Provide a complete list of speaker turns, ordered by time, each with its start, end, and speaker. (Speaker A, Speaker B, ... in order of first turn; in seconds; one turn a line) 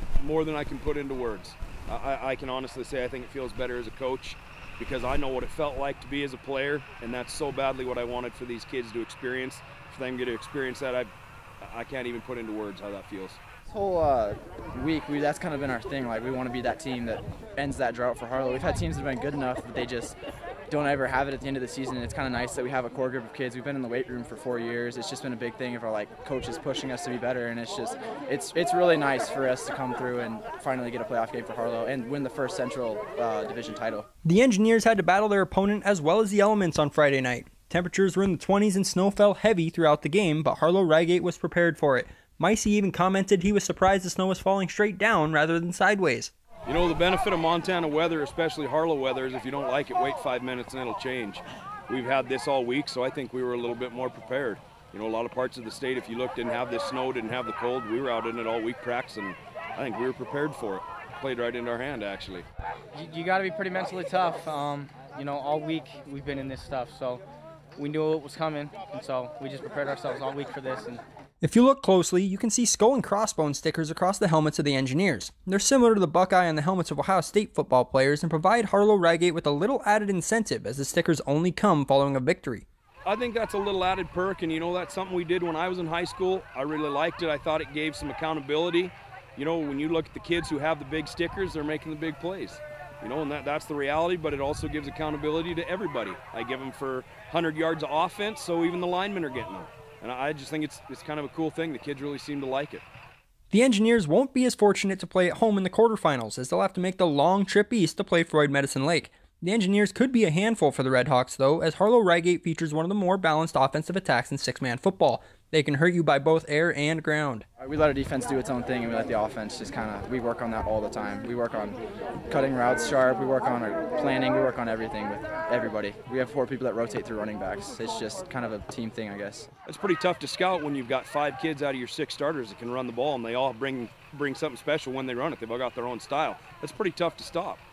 Speaker A: 0.2-13.4
Speaker B: 13.7-20.2
Speaker B: 20.7-34.1
Speaker C: 34.2-46.3
Speaker A: 46.7-62.5
Speaker D: 62.9-67.2
Speaker D: 67.8-71.0
Speaker C: 71.4-82.7
Speaker A: 83.0-102.8
Speaker C: 103.5-117.5
Speaker B: 117.6-129.5
Speaker A: 129.7-137.6